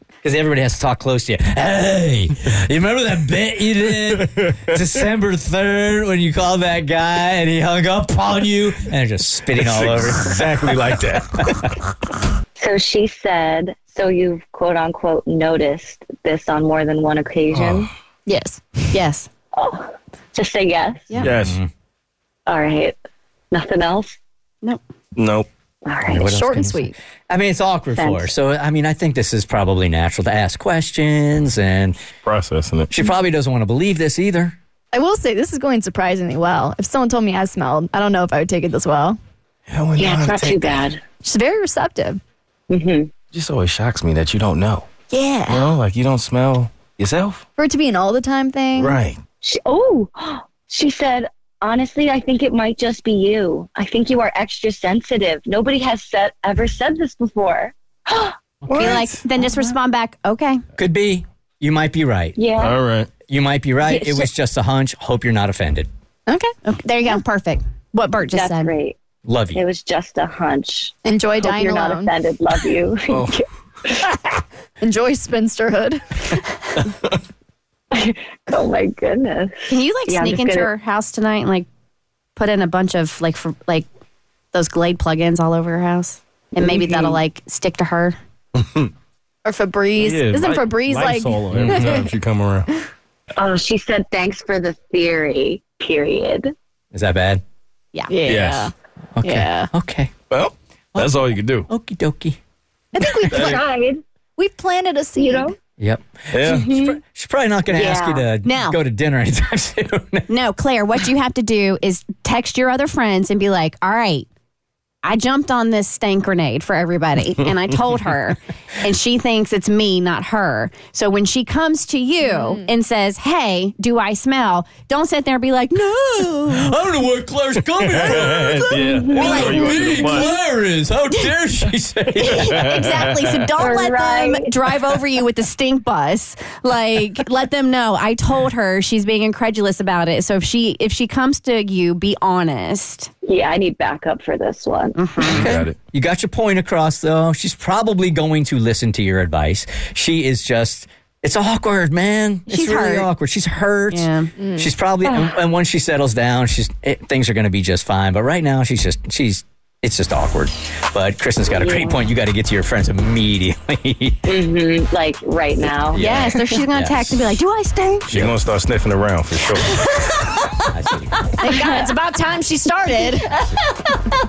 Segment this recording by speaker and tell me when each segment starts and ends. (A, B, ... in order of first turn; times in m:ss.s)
0:00.2-0:10.8 A
0:04.1-0:04.8 B
0:09.5-0:11.4 B
0:12.6-0:17.9 C
0:17.5-0:17.8 B
0:18.2-0:19.0 D
0:18.9-0:19.3 E
0:19.5-0:21.2 C
0:21.1-0:21.6 B
0:21.4-0:21.7 A
0:22.5-0:23.0 C
0:23.5-0:24.2 C
0:25.1-0:25.5 B
0:25.8-0:26.3 C
0:26.1-0:32.0 A
0:26.1-0:27.0 D
0:27.9-0:28.3 C
0:32.2-0:32.9 B
0:32.9-0:34.5 A
0:34.9-0:39.2 D
0:39.7-0:40.9 B
0:40.0-0:41.0 C
0:41.2-0:42.2 D
0:42.7-0:43.1 C
0:43.3-0:44.9 B
0:45.1-0:45.7 D
0:45.5-0:47.4 B
0:47.6-0:49.0 D
0:48.8-0:49.2 B
0:49.4-0:58.4 C
0:58.7-0:59.2 B
0:58.7-0:58.9 A
0:58.7-1:00.6 E
1:00.8-1:02.5 A
1:02.4-1:02.8 C
1:02.6-1:03.1 B
1:03.3-1:05.9 A
1:03.8-1:04.3 C
1:06.3-1:06.5 D
1:06.6-1:08.7 E
1:08.3-1:09.0 C
1:09.2-1:09.6 A
1:09.5-1:14.1 C
1:11.0-1:12.1 D
1:13.1-1:13.3 B
1:14.8-1:16.4 D
1:17.9-1:20.7 C
1:19.7-1:21.6 E
1:22.4-1:23.8 E
1:24.5-1:28.2 E
1:26.6-1:27.2 C
1:29.4-1:32.1 D
1:30.0-1:32.7 B
1:33.4-1:36.5 C
1:36.9-1:37.4 A
1:38.1-1:38.7 D
1:38.3-1:38.7 B
1:39.2-1:40.1 A
1:39.2-1:39.7 D
1:40.3-1:41.7 B
1:41.7-1:42.4 A
1:42.9-1:43.6 D
1:43.2-1:44.0 C
1:43.3-1:43.6 B
1:44.4-1:45.5 D
1:45.2-1:45.5 C
1:45.8-1:50.3 A
1:46.3-1:46.7 B
1:46.5-1:47.0 C
1:47.7-1:48.3 C
1:48.4-1:48.8 E
1:50.3-1:54.3 E
1:55.0-2:06.8 E
2:02.2-2:02.7 D
2:06.5-2:12.7 A
2:07.8-2:10.3 B
2:08.0-2:10.4 E
2:08.9-2:09.8 C
2:12.2-2:23.1 E
2:12.3-2:13.4 B
2:13.6-2:14.5 C
2:23.2-2:25.0 C
2:24.9-2:25.5 E
2:25.3-2:44.4 A
2:25.3-2:25.8 B
2:32.5-2:33.1 E
2:33.9-2:34.3 E
2:34.4-2:34.7 D
2:35.0-2:35.4 C
2:41.5-2:42.1 C
2:44.2-2:46.2 C
2:45.9-2:47.4 A
2:45.9-2:48.1 E
2:48.1-2:49.8 B
2:48.1-2:48.3 A
2:49.8-2:50.1 E
2:50.7-2:51.3 A
2:51.4-2:52.0 E
2:51.5-2:51.8 C
2:51.6-2:53.4 D